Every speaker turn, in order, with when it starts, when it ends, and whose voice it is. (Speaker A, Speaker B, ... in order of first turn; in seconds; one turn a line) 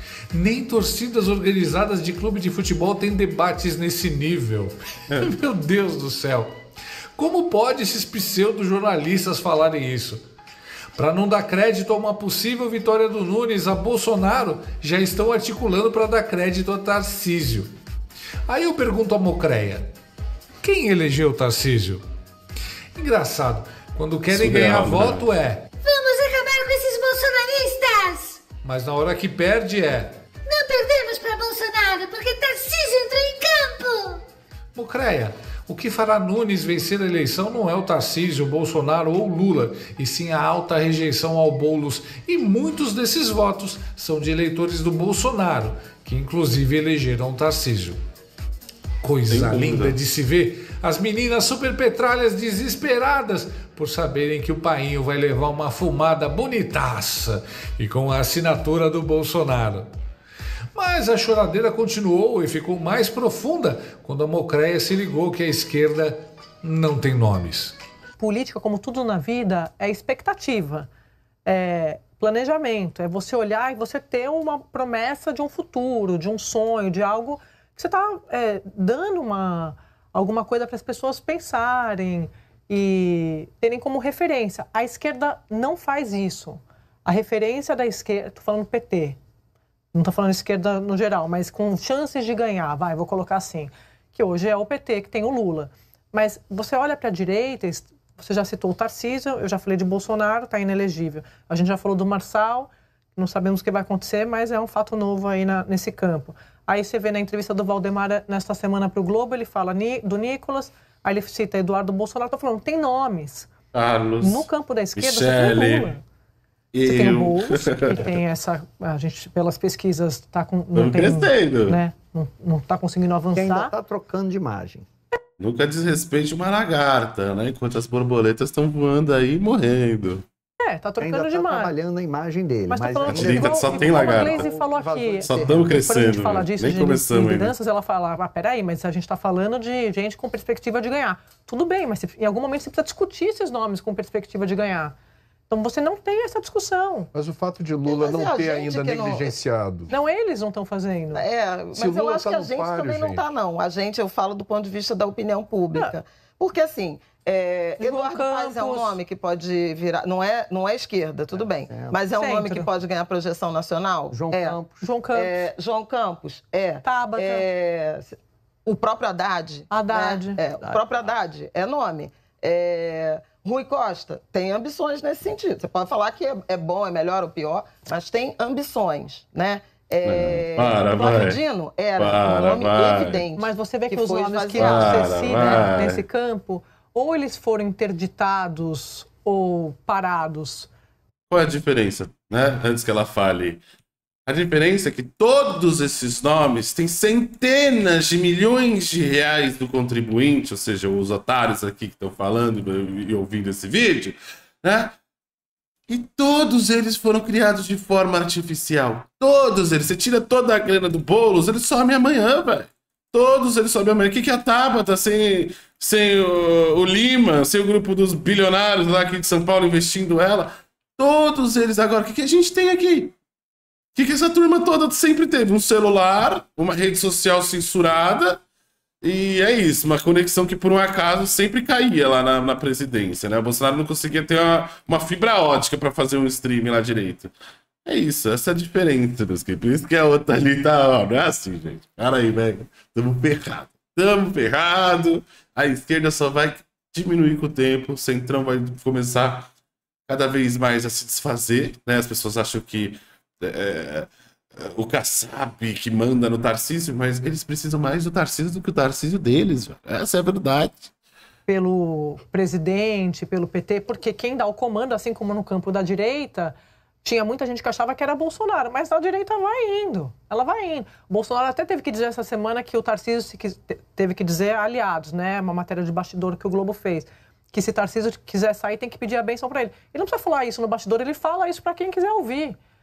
Speaker A: 0.3-6.5
Speaker A: 7.2-10.2
Speaker A: 10.9-17.7
Speaker A: 18.5-19.9
Speaker A: 20.6-22.0
Speaker A: 22.9-25.6
Speaker B: 24.3-25.3
Speaker C: 25.8-28.4
Speaker A: 28.6-30.1
Speaker C: 30.5-34.2
Speaker A: 34.7-48.0
Speaker A: 49.0-59.9
Speaker B: 49.3-50.0
Speaker A: 60.7-67.8
Speaker D: 68.2-70.9
Speaker D: 71.5-89.2
Speaker D: 89.9-113.5
Speaker B: 113.7-115.9
Speaker D: 114.2-116.0
Speaker B: 116.7-118.0
Speaker D: 116.8-123.7
Speaker B: 120.7-121.8
Speaker E: 123.3-124.8
Speaker B: 125.4-130.2
Speaker D: 130.6-131.7
Speaker E: 131.0-135.8
Speaker D: 132.7-144.9
Speaker B: 133.1-134.5
Speaker B: 135.2-137.5
Speaker D: 145.5-147.1
Speaker F: 147.1-149.9
Speaker G: 147.8-149.3
Speaker D: 149.9-151.2
Speaker G: 151.1-164.6
Speaker F: 151.7-153.2
Speaker D: 157.8-159.0
Speaker E: 161.3-162.0
Speaker D: 162.1-162.7
Speaker E: 164.1-164.8
Speaker D: 164.8-165.4
Speaker G: 165.1-185.6
Speaker D: 166.8-167.4
Speaker D: 169.7-170.4
Speaker E: 170.6-171.0
Speaker B: 180.0-181.4
Speaker B: 182.0-183.2
Speaker D: 183.3-190.7
Speaker B: 184.6-186.0
Speaker B: 191.3-193.6
Speaker B: 194.2-204.9
Speaker B: 205.9-223.1
Speaker B: 223.9-228.4
Speaker B: 229.0-237.3
Speaker B: 237.8-249.5
Speaker B: 250.1-254.1
Speaker B: 254.6-260.9
Speaker D: 261.4-282.6